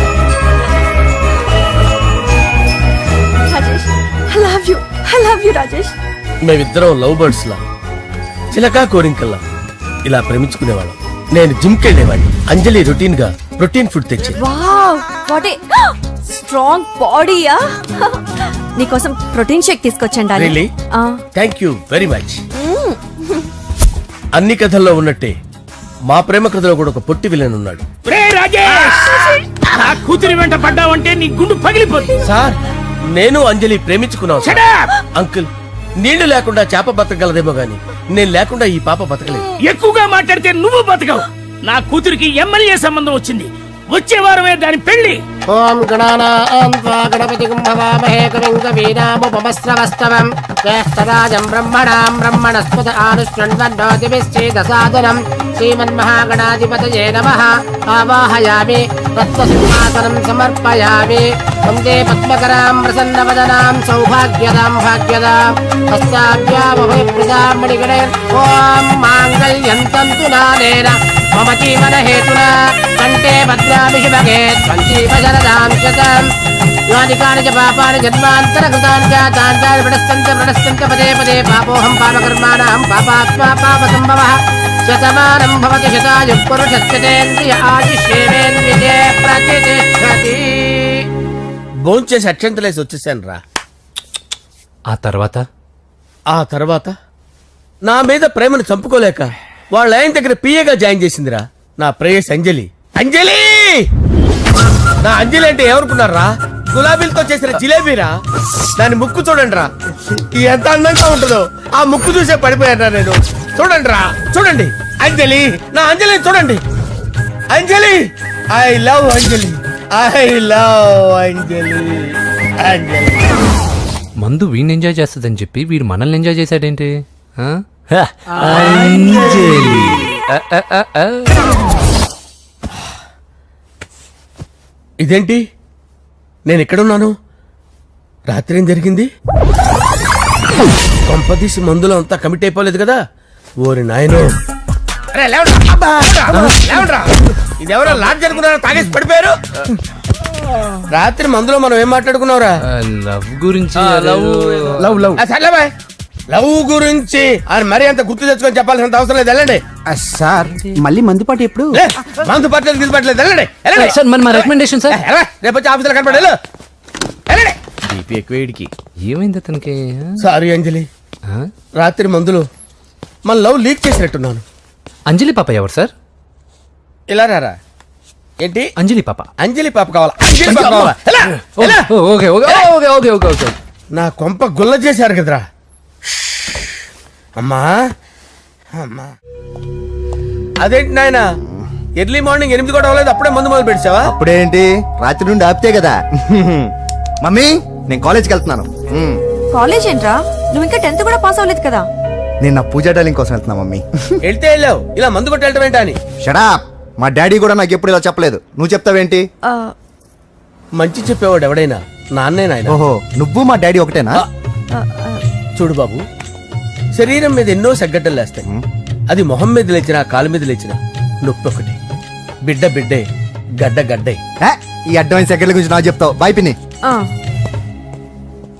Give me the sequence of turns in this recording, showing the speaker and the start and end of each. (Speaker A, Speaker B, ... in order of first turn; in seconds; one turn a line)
Speaker A: 3.5-6.0
Speaker B: 6.4-7.6
Speaker B: 8.5-9.4
Speaker B: 10.1-14.4
Speaker A: 14.4-18.2
Speaker A: 18.8-21.2
Speaker B: 20.4-20.7
Speaker B: 21.4-22.4
Speaker A: 22.6-23.5
Speaker B: 24.4-25.4
Speaker B: 26.1-27.9
Speaker C: 28.1-29.0
Speaker C: 30.0-32.0
Speaker B: 32.2-32.6
Speaker B: 33.1-34.6
Speaker B: 35.1-35.5
Speaker B: 36.0-39.5
Speaker C: 39.7-45.2
Speaker D: 45.5-76.3
Speaker D: 76.9-84.4
Speaker D: 84.9-91.0
Speaker B: 91.8-93.4
Speaker E: 94.9-95.5
Speaker B: 96.3-96.9
Speaker B: 97.8-103.9
Speaker B: 105.0-108.2
Speaker B: 108.8-116.6
Speaker B: 117.5-118.0
Speaker B: 118.5-123.3
Speaker E: 124.2-127.6
Speaker B: 128.0-129.7
Speaker E: 128.4-131.4
Speaker B: 135.0-135.4
Speaker B: 136.5-137.1
Speaker B: 138.3-139.1
Speaker B: 141.1-143.0
Speaker B: 143.6-144.3
Speaker B: 145.1-149.4
Speaker B: 150.9-152.5
Speaker E: 152.7-155.1
Speaker B: 153.8-155.7
Speaker F: 154.9-155.1
Speaker B: 156.3-159.6
Speaker F: 159.9-161.8
Speaker B: 161.7-166.4
Speaker E: 163.8-165.0
Speaker B: 167.3-168.7
Speaker E: 169.0-170.2
Speaker B: 170.2-170.9
Speaker B: 171.8-172.5
Speaker B: 173.3-174.4
Speaker E: 175.1-175.9
Speaker B: 177.1-177.6
Speaker B: 178.4-178.7
Speaker E: 178.8-179.3
Speaker B: 179.4-181.9
Speaker E: 180.4-183.6
Speaker B: 182.4-182.7
Speaker B: 183.9-185.4
Speaker B: 186.2-186.7
Speaker B: 187.4-187.8
Speaker B: 188.7-189.1
Speaker B: 190.6-191.3
Speaker B: 192.0-194.1
Speaker G: 194.1-199.2
Speaker A: 199.5-201.9
Speaker G: 202.4-203.8
Speaker B: 204.2-206.0
Speaker G: 206.2-209.2
Speaker A: 209.5-209.7
Speaker B: 210.8-212.8
Speaker G: 212.7-214.2
Speaker A: 214.7-215.2
Speaker B: 215.6-216.0
Speaker B: 217.0-218.5
Speaker B: 219.1-221.8
Speaker B: 222.4-223.1
Speaker B: 223.6-224.2
Speaker G: 224.4-226.6